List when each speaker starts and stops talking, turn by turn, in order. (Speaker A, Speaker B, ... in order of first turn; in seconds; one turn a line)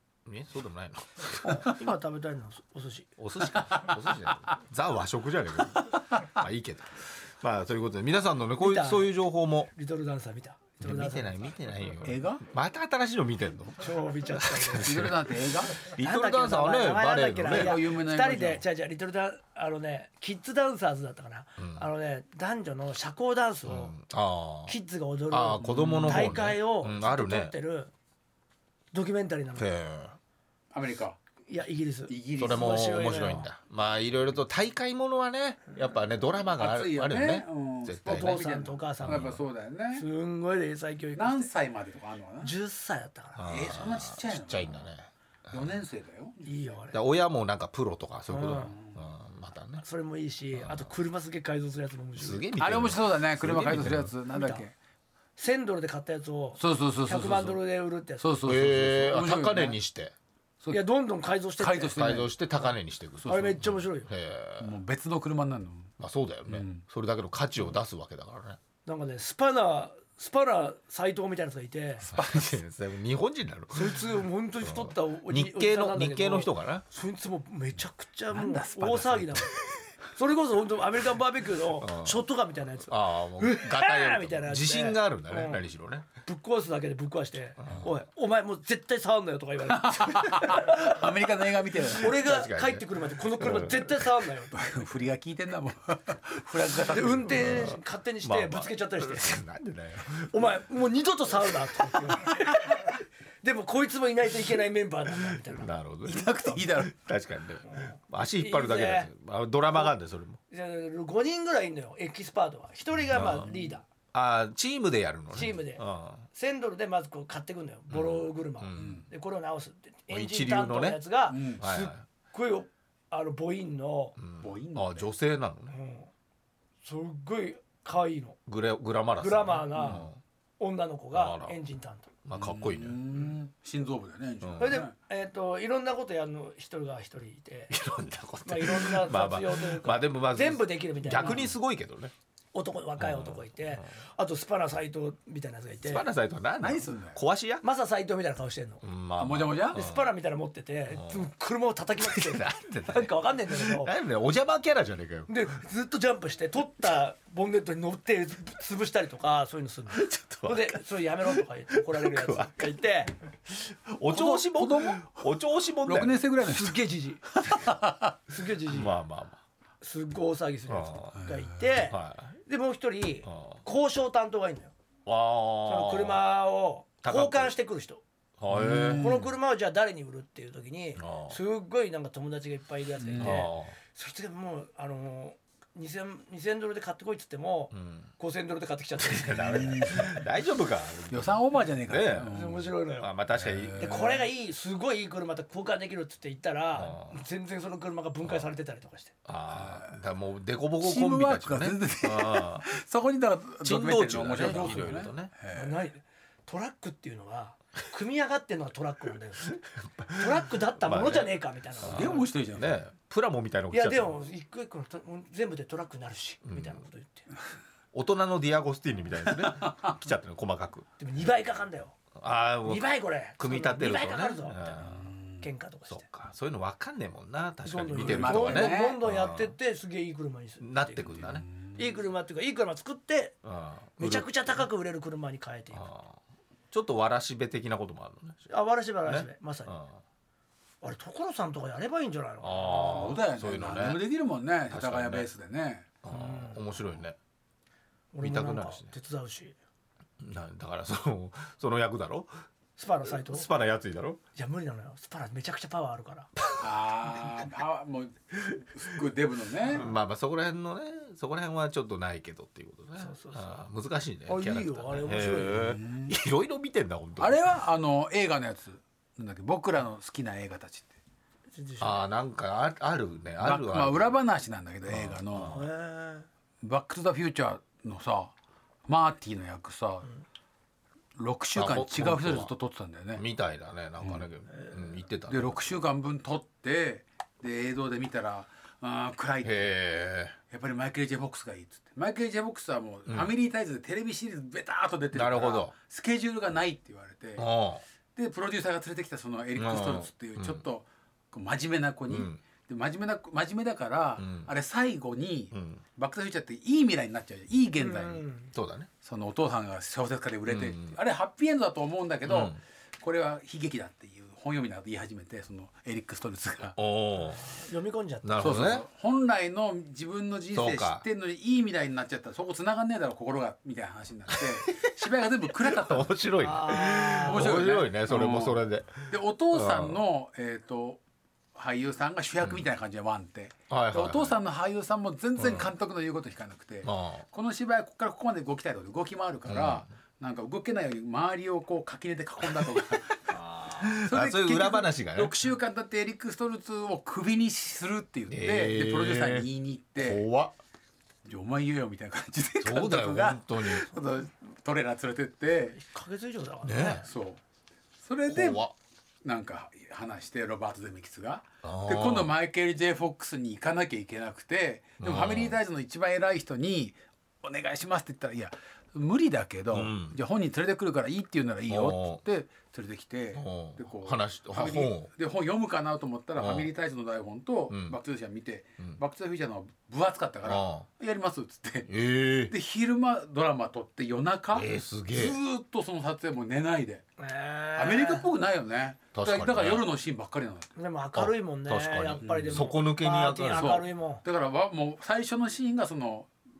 Speaker A: 0.2-1.7
Speaker B: 1.4-3.1
Speaker A: 3.2-9.7
Speaker B: 8.6-9.2
Speaker B: 9.7-11.5
Speaker A: 10.8-17.8
Speaker C: 12.0-12.4
Speaker B: 13.8-15.1
Speaker C: 14.8-15.8
Speaker B: 16.0-23.9
Speaker C: 17.4-18.6
Speaker A: 21.6-21.8
Speaker A: 23.6-24.7
Speaker B: 24.7-27.9
Speaker A: 25.3-27.5
Speaker C: 25.6-26.4
Speaker B: 28.9-29.7
Speaker A: 29.6-30.2
Speaker C: 30.7-31.2
Speaker B: 31.5-33.5
Speaker C: 32.1-32.9
Speaker A: 32.4-38.4
Speaker C: 36.6-40.0
Speaker B: 38.1-39.4
Speaker A: 39.0-39.4
Speaker B: 39.9-41.5
Speaker C: 41.1-42.5
Speaker B: 42.4-43.5
Speaker A: 43.4-45.8
Speaker C: 43.5-44.9
Speaker C: 45.5-46.5
Speaker B: 46.4-47.0
Speaker A: 46.9-49.8
Speaker B: 48.3-48.7
Speaker C: 48.5-49.0
Speaker B: 49.8-52.5
Speaker A: 50.5-50.9
Speaker A: 52.2-54.1
Speaker C: 52.6-54.7
Speaker B: 54.3-54.6
Speaker B: 55.4-58.3
Speaker C: 56.6-57.6
Speaker C: 58.2-59.8
Speaker A: 58.4-60.1
Speaker B: 60.7-62.0
Speaker C: 61.6-62.4
Speaker A: 61.9-64.8
Speaker C: 63.2-63.6
Speaker B: 63.2-64.1
Speaker C: 64.6-65.9
Speaker A: 66.0-68.6
Speaker C: 66.5-66.8
Speaker B: 68.8-72.1
Speaker C: 72.0-72.6
Speaker A: 72.1-76.8
Speaker B: 73.7-79.5
Speaker C: 78.3-79.5
Speaker B: 80.1-85.6
Speaker A: 81.8-82.2
Speaker A: 82.8-86.1
Speaker B: 86.2-91.0
Speaker A: 87.6-87.9
Speaker C: 89.7-92.2
Speaker B: 91.9-94.6
Speaker A: 92.0-94.0
Speaker C: 94.5-97.6
Speaker B: 96.9-99.4
Speaker A: 97.3-100.5
Speaker B: 100.3-105.7
Speaker A: 105.1-110.4
Speaker C: 106.0-106.9
Speaker B: 107.6-109.1
Speaker B: 110.5-113.8
Speaker A: 113.1-113.5
Speaker A: 114.1-116.3
Speaker B: 115.3-124.2
Speaker A: 117.9-119.0
Speaker C: 118.8-119.0
Speaker A: 120.1-121.0
Speaker C: 121.3-121.6
Speaker A: 121.6-122.0
Speaker A: 124.2-125.8
Speaker C: 124.4-125.1
Speaker B: 125.7-126.1
Speaker B: 126.8-128.4
Speaker A: 128.5-130.2
Speaker B: 129.2-130.1
Speaker C: 129.7-130.0
Speaker B: 130.6-132.1
Speaker A: 131.1-131.5
Speaker A: 132.2-133.3
Speaker C: 132.3-134.9
Speaker A: 134.4-134.8
Speaker B: 134.6-137.7
Speaker A: 137.7-142.1
Speaker B: 138.4-141.5
Speaker C: 141.2-141.5
Speaker B: 142.5-146.1
Speaker A: 143.0-143.9
Speaker A: 145.8-147.6
Speaker C: 146.6-147.2
Speaker B: 147.6-148.8
Speaker A: 148.8-150.1
Speaker C: 149.2-149.8
Speaker B: 149.7-153.9
Speaker A: 150.9-151.3
Speaker A: 152.0-155.3
Speaker B: 155.3-163.1
Speaker A: 159.9-162.7
Speaker A: 163.5-166.2
Speaker C: 164.1-168.1
Speaker B: 166.4-167.7
Speaker B: 168.3-168.9
Speaker A: 168.7-169.4
Speaker B: 169.8-174.7
Speaker A: 170.7-171.2
Speaker C: 171.2-171.6
Speaker A: 171.8-172.3
Speaker A: 173.2-173.6
Speaker A: 175.1-176.2
Speaker B: 175.7-178.0
Speaker A: 177.0-177.5
Speaker A: 178.4-179.2
Speaker C: 178.5-179.3
Speaker B: 178.9-190.1
Speaker A: 181.0-181.4
Speaker C: 183.0-183.4
Speaker A: 183.2-183.7
Speaker A: 187.7-188.1
Speaker A: 189.0-192.3
Speaker C: 189.4-190.1
Speaker C: 191.1-192.8
Speaker B: 192.3-193.1
Speaker A: 193.0-193.9
Speaker C: 193.3-194.2
Speaker B: 193.8-199.1
Speaker A: 196.7-197.2
Speaker A: 198.2-198.5
Speaker A: 199.2-202.7
Speaker C: 199.5-200.0
Speaker C: 200.8-205.8
Speaker A: 203.6-205.3
Speaker B: 204.4-204.9
Speaker B: 205.5-209.6
Speaker A: 209.5-214.1
Speaker B: 210.1-212.2
Speaker C: 211.8-212.8
Speaker B: 213.7-217.3
Speaker A: 216.4-216.8
Speaker A: 217.9-220.8
Speaker C: 219.4-219.9
Speaker B: 221.0-221.9
Speaker A: 222.1-225.1
Speaker B: 222.6-224.8
Speaker C: 224.8-225.4
Speaker B: 225.4-226.1
Speaker A: 225.9-229.5
Speaker B: 227.6-231.2
Speaker C: 227.9-229.0
Speaker A: 230.6-231.4
Speaker C: 231.2-231.9
Speaker B: 231.8-233.3
Speaker A: 233.4-234.7
Speaker B: 234.0-235.8
Speaker A: 235.7-236.2
Speaker A: 236.7-238.5
Speaker B: 238.5-239.7
Speaker A: 239.0-240.0
Speaker B: 240.8-243.2
Speaker A: 242.4-244.0
Speaker C: 242.7-245.9
Speaker A: 244.7-245.3
Speaker A: 246.0-247.2
Speaker B: 246.1-246.7
Speaker B: 248.1-249.5
Speaker A: 248.2-248.9
Speaker A: 250.2-252.3
Speaker B: 252.8-253.5
Speaker A: 253.0-254.2
Speaker B: 254.3-256.3
Speaker A: 256.4-256.7
Speaker C: 256.6-259.9
Speaker A: 259.7-267.4
Speaker B: 263.0-263.6
Speaker B: 264.2-265.6
Speaker C: 265.5-266.1
Speaker C: 267.2-270.9
Speaker B: 271.5-272.0
Speaker A: 271.8-274.1
Speaker C: 273.4-275.6
Speaker A: 274.9-275.6
Speaker B: 275.4-276.3
Speaker C: 276.6-278.3
Speaker C: 278.9-280.1
Speaker C: 281.2-283.2
Speaker A: 281.5-282.5
Speaker A: 283.1-285.7
Speaker C: 284.0-284.2
Speaker B: 284.5-284.8
Speaker C: 285.3-289.7
Speaker A: 289.4-290.4
Speaker C: 290.5-297.5
Speaker A: 293.1-293.3
Speaker A: 295.1-295.7
Speaker A: 297.4-297.8
Speaker C: 298.1-308.2
Speaker A: 299.5-300.6
Speaker A: 302.1-302.4
Speaker A: 304.2-304.5
Speaker A: 305.5-305.8
Speaker B: 307.8-308.5
Speaker A: 308.5-308.9
Speaker C: 309.0-316.8
Speaker A: 310.5-311.0
Speaker A: 312.2-312.6
Speaker A: 316.8-317.5
Speaker B: 317.4-318.3
Speaker A: 318.2-318.9
Speaker C: 318.4-326.2
Speaker A: 320.5-321.0
Speaker A: 324.3-325.1
Speaker A: 325.6-330.0
Speaker B: 326.4-327.6
Speaker C: 327.1-331.0
Speaker C: 331.5-350.2
Speaker A: 333.7-334.4
Speaker A: 335.4-335.7
Speaker A: 336.8-337.2
Speaker A: 339.4-339.9
Speaker A: 343.7-345.4
Speaker A: 348.3-350.5
Speaker C: 351.2-355.8
Speaker A: 352.6-353.9
Speaker B: 355.8-357.1
Speaker A: 356.6-357.1
Speaker C: 357.0-357.4
Speaker C: 358.0-358.7
Speaker A: 358.3-358.7
Speaker C: 359.2-381.9
Speaker A: 361.6-362.3
Speaker A: 365.0-365.6
Speaker A: 369.7-370.1
Speaker A: 371.7-372.2
Speaker A: 373.3-375.1
Speaker A: 376.4-376.7
Speaker A: 377.7-378.0
Speaker A: 380.4-380.9
Speaker A: 381.9-382.5
Speaker C: 382.5-387.1
Speaker A: 384.5-385.4
Speaker B: 387.2-388.3
Speaker C: 387.8-390.7
Speaker A: 389.1-389.9
Speaker B: 390.8-394.2
Speaker A: 391.1-393.8
Speaker C: 392.2-392.7
Speaker C: 393.5-396.3